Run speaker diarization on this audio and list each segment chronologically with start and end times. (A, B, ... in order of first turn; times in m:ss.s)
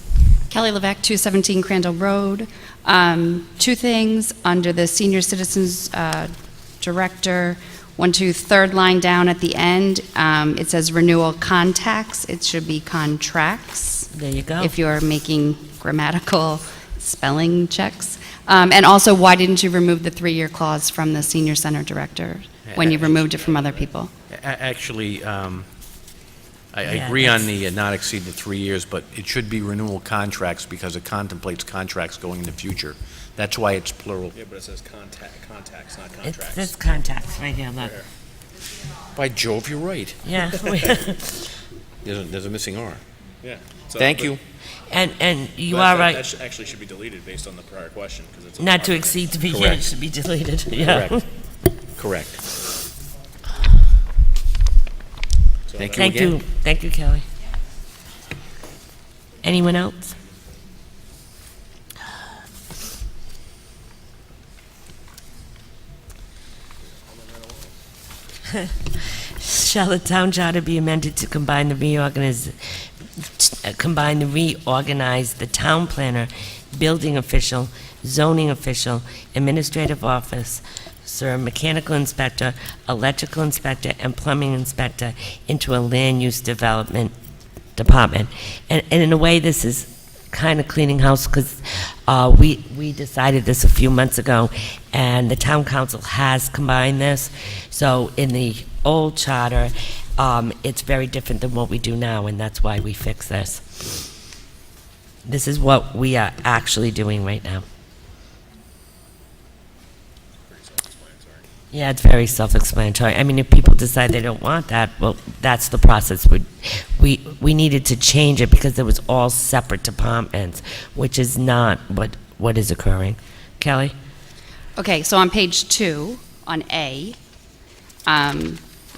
0:00.5-0:06.3 A
0:06.8-0:24.1 A
0:14.1-0:14.7 B
0:22.6-0:23.8 C
0:24.3-0:25.7 C
0:26.7-0:34.3 C
0:26.8-0:27.5 B
0:34.3-0:36.8 D
0:36.2-0:38.0 B
0:37.8-0:38.0 D
0:39.1-0:40.2 C
0:40.2-0:41.4 B
0:42.0-0:43.0 C
0:43.4-0:44.4 D
0:44.0-0:44.4 C
0:44.9-0:46.2 B
0:45.7-0:49.5 D
0:48.6-0:51.2 B
0:49.5-0:49.8 C
0:50.8-0:51.2 C
0:52.0-0:52.4 C
0:55.7-0:56.1 D
0:55.8-0:56.4 C
0:56.0-0:57.2 B
0:59.4-1:00.1 B
1:09.4-1:12.6 B
1:13.2-1:27.1 B
1:27.8-1:43.8 B
1:45.2-1:47.6 B
1:50.5-1:51.4 D
1:51.7-2:03.9 B
2:04.8-2:07.2 A
2:08.1-2:08.6 A